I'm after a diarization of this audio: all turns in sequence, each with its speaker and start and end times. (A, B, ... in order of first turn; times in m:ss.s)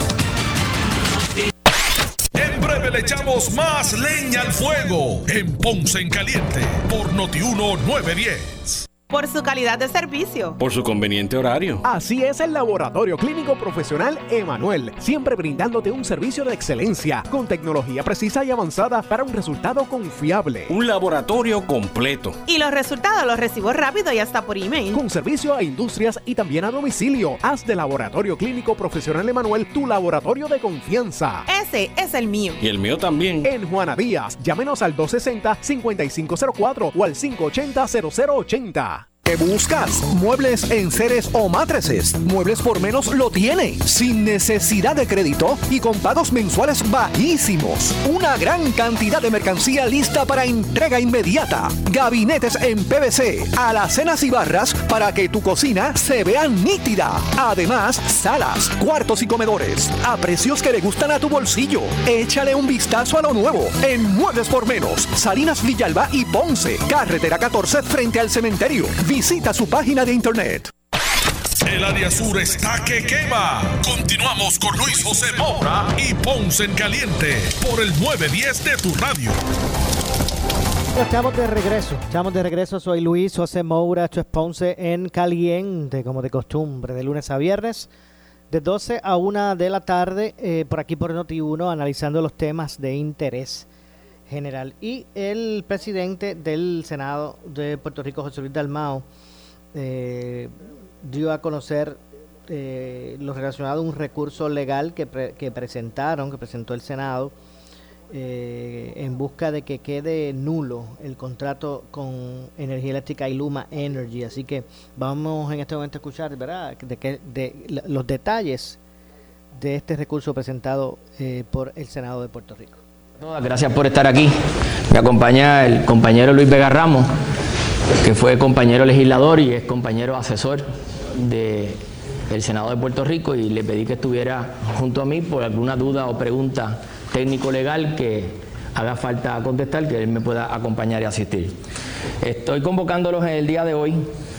0:02.4-0:08.8 A
0:09.1-0:10.6 B
0:10.6-0:11.8 C
0:11.8-0:20.7 D
0:20.7-0:22.4 C
0:22.5-0:25.0 B
0:24.9-0:31.5 D
0:31.5-0:32.6 B
0:32.6-0:33.5 C
0:33.4-1:10.7 D
1:11.6-1:19.4 A
1:21.0-1:27.9 E
1:28.5-1:33.7 E
1:34.3-1:39.0 E
1:39.7-1:47.3 E
1:48.1-1:58.8 E
1:59.6-2:02.8 E
2:03.2-2:04.4 F
2:04.9-2:07.1 F
2:08.0-2:11.8 F
2:12.3-2:21.5 F
2:22.2-2:24.0 F